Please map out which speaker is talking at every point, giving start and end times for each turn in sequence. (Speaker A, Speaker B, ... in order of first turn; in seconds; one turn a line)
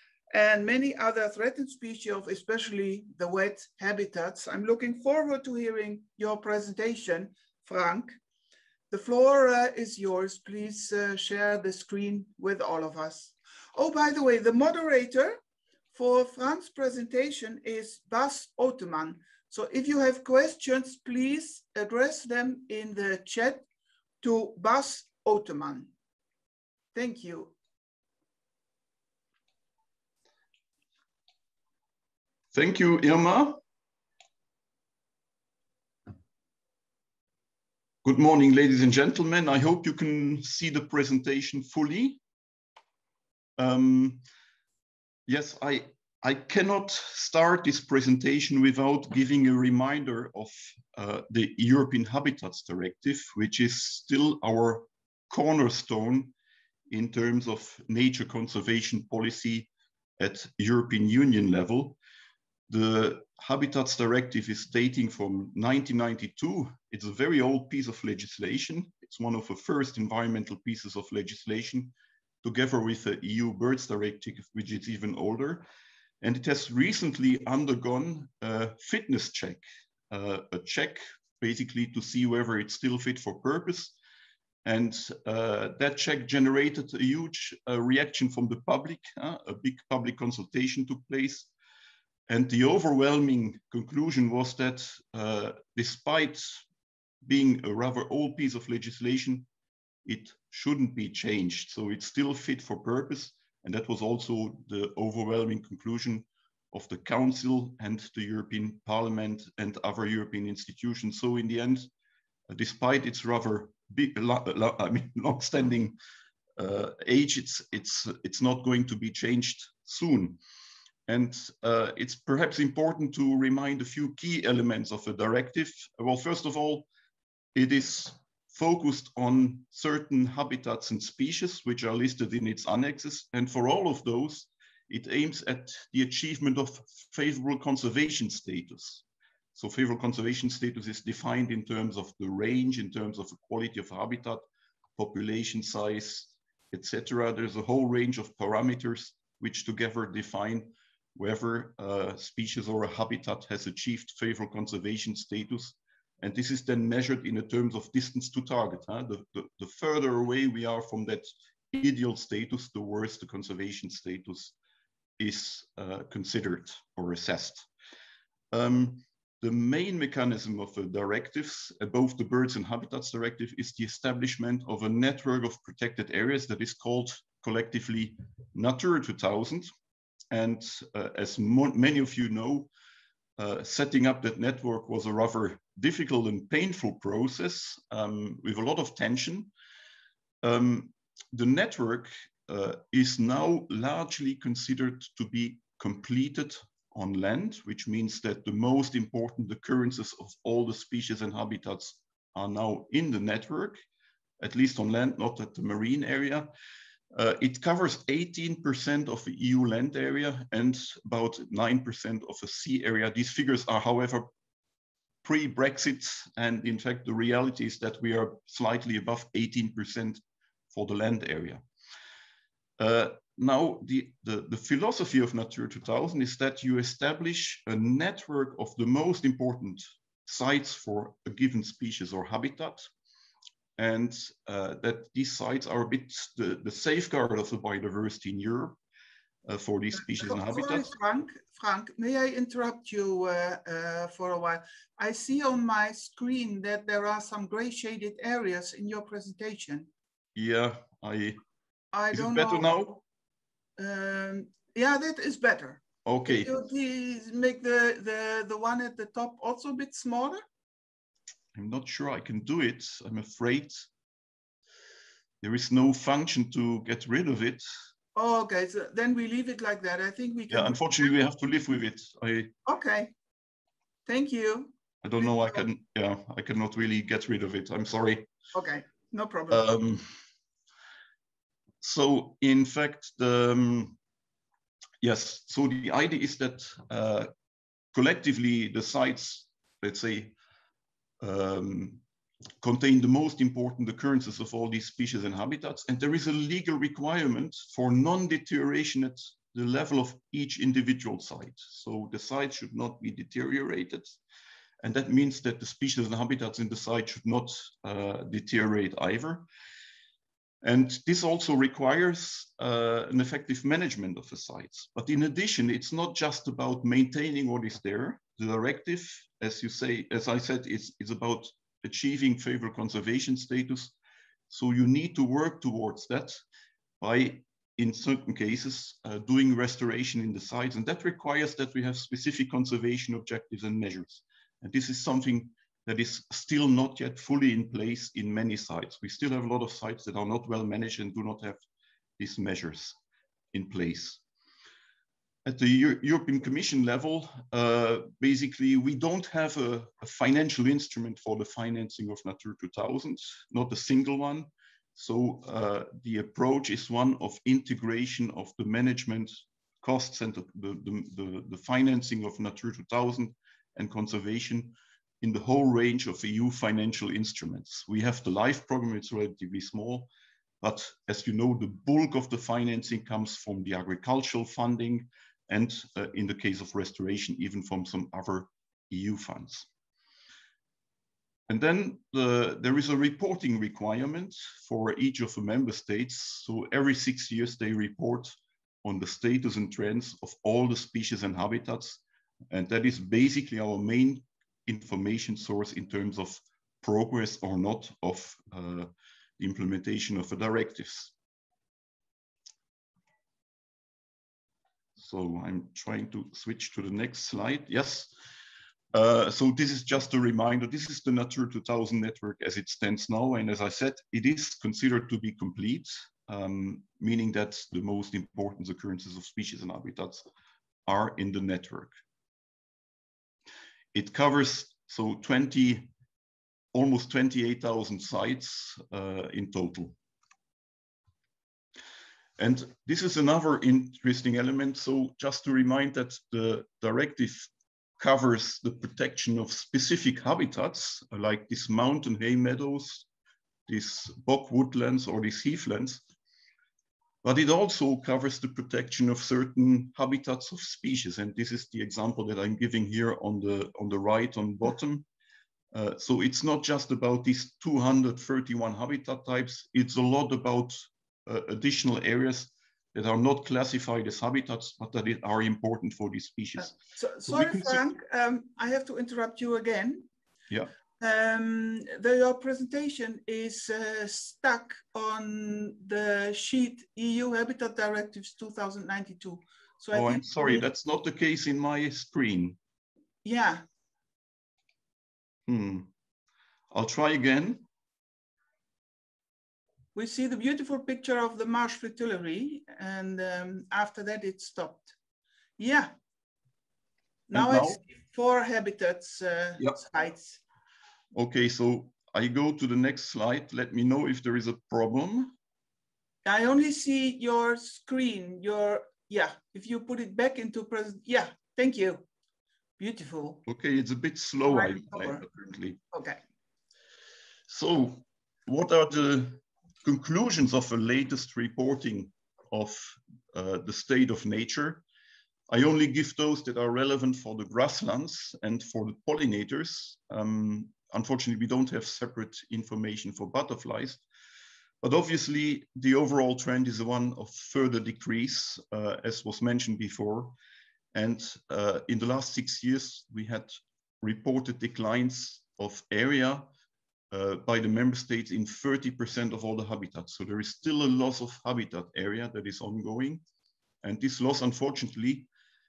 Speaker A: 0.3-8.2
Speaker A: 8.9-15.4
Speaker A: 15.9-23.6
Speaker A: 24.2-25.9
Speaker A: 26.9-27.5
Speaker B: 32.5-33.6
Speaker B: 38.0-42.2
Speaker B: 43.6-44.2
Speaker B: 45.3-56.3
Speaker B: 56.9-62.0
Speaker B: 62.7-75.7
Speaker B: 76.2-83.9
Speaker B: 84.6-91.5
Speaker B: 92.3-96.6
Speaker B: 97.2-99.5
Speaker B: 100.0-111.9
Speaker B: 112.5-116.0
Speaker B: 116.6-120.4
Speaker B: 121.1-126.9
Speaker B: 127.5-139.0
Speaker B: 139.5-144.4
Speaker B: 145.0-164.5
Speaker B: 165.2-167.7
Speaker B: 168.5-179.7
Speaker B: 180.3-182.7
Speaker B: 183.4-189.5
Speaker B: 190.4-203.8
Speaker B: 204.4-206.5
Speaker B: 207.1-214.3
Speaker B: 215.2-220.2
Speaker B: 220.7-221.6
Speaker B: 222.8-232.8
Speaker B: 233.8-238.8
Speaker B: 239.4-240.9
Speaker A: 239.9-249.9
Speaker B: 250.3-251.4
Speaker A: 251.9-253.0
Speaker B: 252.1-253.0
Speaker A: 253.8-260.4
Speaker B: 256.1-256.5
Speaker B: 261.5-263.9
Speaker B: 265.4-267.6
Speaker A: 268.1-271.2
Speaker B: 270.5-272.5
Speaker A: 272.6-273.1
Speaker A: 274.1-275.6
Speaker B: 275.0-278.3
Speaker A: 278.5-279.7
Speaker B: 279.5-280.1
Speaker B: 281.8-284.0
Speaker B: 285.0-287.3
Speaker B: 287.9-290.3
Speaker B: 291.2-292.0
Speaker B: 292.6-304.1
Speaker B: 304.8-309.4
Speaker B: 310.6-323.9
Speaker B: 324.5-326.4
Speaker B: 327.0-341.6
Speaker B: 342.2-342.9
Speaker B: 343.5-344.2
Speaker B: 345.4-370.1
Speaker B: 370.6-379.7
Speaker B: 381.5-398.9
Speaker B: 399.4-401.1
Speaker B: 405.0-408.1
Speaker B: 408.9-420.2
Speaker B: 420.9-421.9
Speaker B: 423.9-425.9
Speaker B: 426.7-429.9
Speaker B: 432.4-443.1
Speaker B: 443.7-446.0
Speaker B: 447.2-455.0
Speaker B: 455.7-467.8
Speaker A: 466.6-470.1
Speaker A: 471.0-480.6
Speaker B: 479.9-482.6
Speaker A: 483.2-483.6
Speaker B: 485.5-485.9
Speaker B: 486.7-487.6
Speaker A: 489.9-494.9
Speaker A: 495.6-495.9
Speaker A: 497.3-500.4
Speaker B: 497.3-497.8
Speaker B: 501.1-505.3
Speaker A: 506.2-512.0
Speaker A: 512.8-513.4
Speaker B: 513.5-515.8
Speaker A: 514.5-515.2
Speaker A: 515.9-516.2
Speaker B: 517.5-524.8
Speaker B: 525.5-534.0
Speaker B: 534.8-540.3
Speaker B: 540.9-546.5
Speaker B: 547.1-553.2
Speaker B: 553.8-555.3